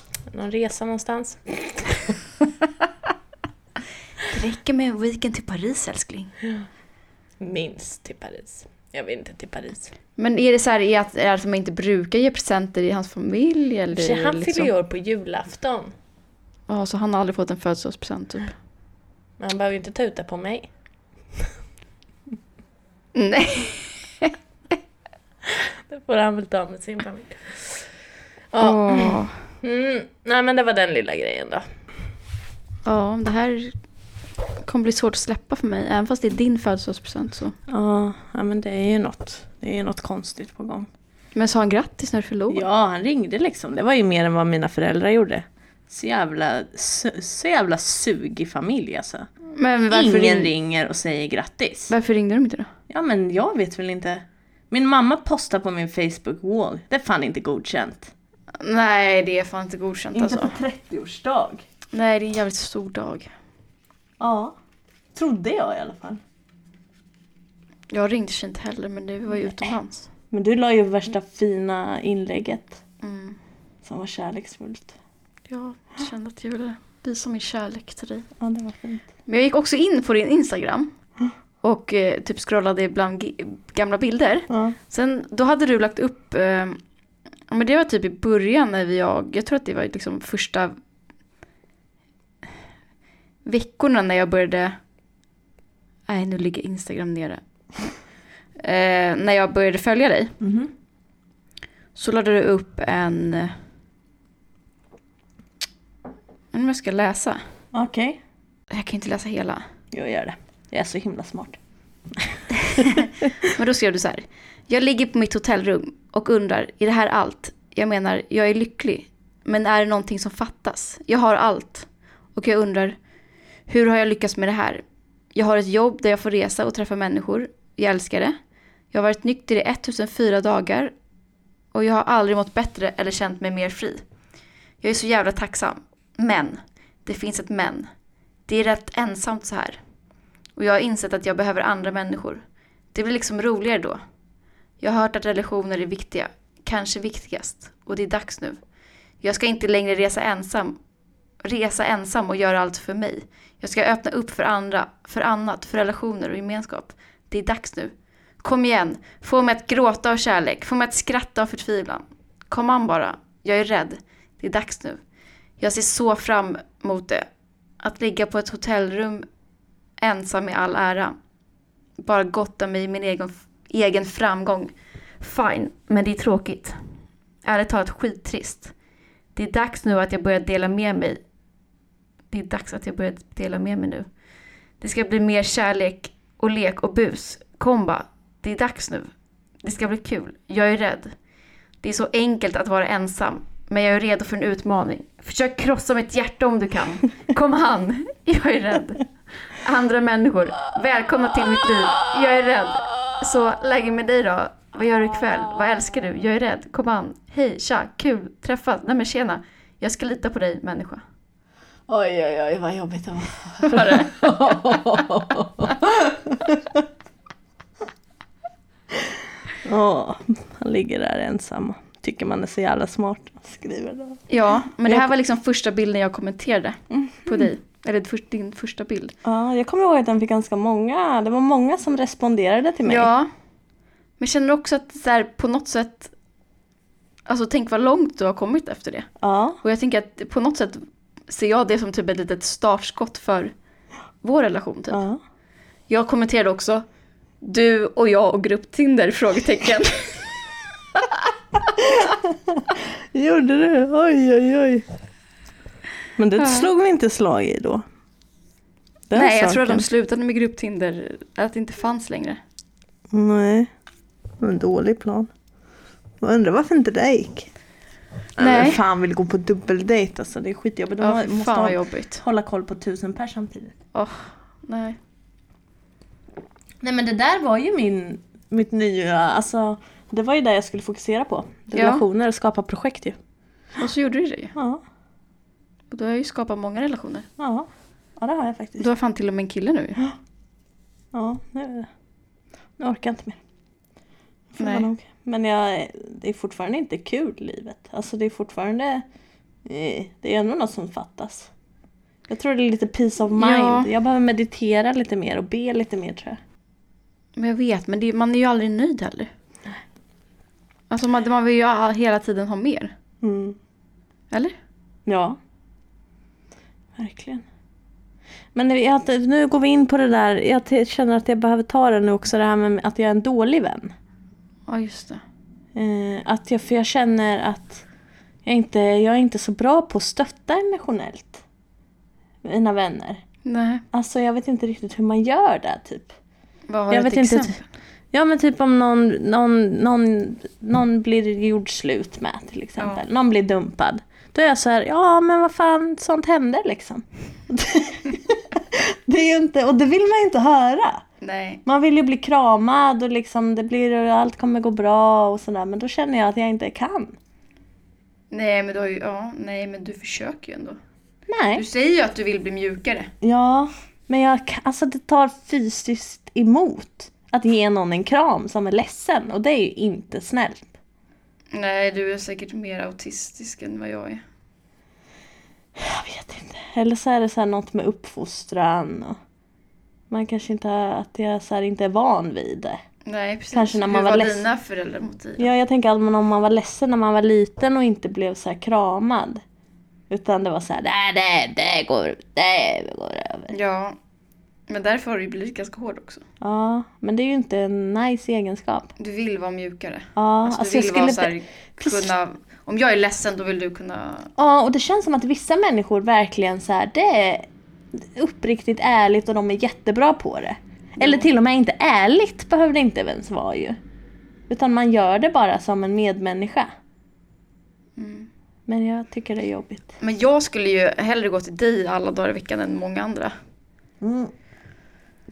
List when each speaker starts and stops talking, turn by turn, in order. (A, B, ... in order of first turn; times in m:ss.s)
0:00.3-0:02.2 A
0:04.3-0:06.3 B
0:07.4-0:09.9 A
0:10.2-0:14.7 B
0:13.9-0:15.9 A
0:16.7-0:18.5 B
0:19.4-0:20.7 A
0:23.2-0:24.3 B
0:25.4-0:27.8 A
0:28.5-0:31.6 A
0:28.6-0:29.3 B
0:32.8-0:33.8 B
0:34.6-0:37.6 B
0:37.7-0:40.9 A
0:41.3-0:42.7 B
0:42.5-0:49.3 A
0:49.5-0:50.5 B
0:49.9-0:51.9 A
0:51.9-0:52.7 B
0:52.9-0:58.1 A
0:58.6-1:00.6 B
1:00.1-1:01.6 A
1:01.9-1:03.3 B
1:04.2-1:04.5 A
1:05.1-1:06.2 A
1:07.9-1:10.1 B
1:10.3-1:12.8 A
1:13.0-1:13.4 B
1:13.8-1:14.9 A
1:15.5-1:18.3 B
1:18.4-1:19.1 A
1:19.3-1:20.9 B
1:21.6-1:26.8 B
1:24.5-1:24.8 A
1:27.5-1:30.8 B
1:33.4-1:34.8 B
1:36.1-1:37.9 B
1:38.6-1:40.4 B
1:40.4-1:40.7 A
1:42.0-1:43.5 B
1:46.5-1:47.4 B
1:47.7-1:48.2 A
1:48.7-1:49.7 B
1:49.9-1:51.6 A
1:52.2-1:53.0 A
1:52.5-2:03.0 B
2:03.7-2:08.3 B
2:08.9-2:10.9 B
2:11.7-2:14.0 B
2:14.8-2:17.9 B
2:18.5-2:19.8 B
2:20.6-2:22.4 B
2:22.9-2:24.0 B
2:24.8-2:28.6 B
2:29.2-2:30.8 B
2:31.4-2:45.0 B
2:45.6-2:47.3 B
2:47.8-2:49.2 B
2:50.0-2:51.2 B
2:52.0-2:56.8 B
2:57.4-2:58.7 B
2:59.3-3:01.2 B
3:02.3-3:04.1 B
3:04.8-3:09.1 B
3:09.6-3:11.1 B
3:11.8-3:31.0 B
3:31.9-3:36.8 A
3:33.6-3:34.2 B
3:38.9-3:44.2 A
3:44.3-3:49.2 B
3:46.9-3:47.5 A
3:49.2-3:53.1 A
3:52.8-3:53.3 B
3:54.2-3:56.1 B
3:57.3-3:59.1 B
3:59.2-3:59.6 A
3:59.6-4:03.5 B
4:04.2-4:05.0 B
4:04.9-4:05.2 A
4:05.9-4:06.8 B
4:07.4-4:10.3 B
4:11.0-4:11.2 B
4:11.8-4:14.8 A
4:16.2-4:17.8 A
4:16.4-4:16.7 B
4:19.1-4:19.9 A
4:19.1-4:22.4 B
4:23.1-4:23.7 A
4:24.4-4:25.3 A
4:26.2-4:27.5 A
4:28.4-4:33.8 A
4:28.4-4:28.8 B
4:31.0-4:32.2 B
4:33.9-4:35.0 B
4:36.8-4:43.2 A
4:41.7-4:42.0 B
4:43.8-4:44.6 B
4:44.6-4:44.8 A
4:45.9-4:47.3 B
4:47.4-4:47.7 A
4:48.2-4:48.9 A
4:48.8-4:50.0 B
4:51.1-4:51.9 A
4:52.8-4:53.4 A
4:54.5-4:59.0 A
4:54.6-4:54.9 B
4:59.6-5:01.5 A
5:02.3-5:06.4 A
5:03.4-5:03.9 B
5:07.4-5:09.3 B
5:10.9-5:12.9 B
5:13.2-5:13.6 A
5:15.1-5:15.4 A
5:17.0-5:17.4 A
5:18.5-5:23.9 A
5:24.7-5:25.2 B
5:25.8-5:27.8 A
5:28.4-5:31.4 A
5:32.4-5:33.2 A
5:33.4-5:33.8 B
5:33.9-5:36.1 A
5:36.7-5:37.6 B
5:36.9-5:37.6 A
5:38.1-5:51.0 A
5:42.8-5:43.0 B
5:51.2-5:51.6 B
5:51.7-5:57.2 A
5:58.3-6:00.8 B
6:01.3-6:01.6 A
6:01.5-6:03.1 B
6:03.2-6:10.7 A
6:11.5-6:14.2 B
6:15.8-6:19.2 A
6:20.1-6:22.8 A
6:23.1-6:25.5 B
6:23.5-6:24.5 A
6:25.4-6:29.4 A
6:30.1-6:33.5 A
6:33.5-6:34.0 B
6:34.7-6:36.2 B
6:36.4-6:38.9 A
6:39.0-6:44.3 B
6:40.2-6:42.1 A
6:44.4-6:53.8 A
6:51.0-6:51.3 B
6:54.5-6:56.7 A
6:58.0-6:58.3 B
6:58.7-6:59.9 A
7:00.0-7:03.3 B
7:04.0-7:04.3 A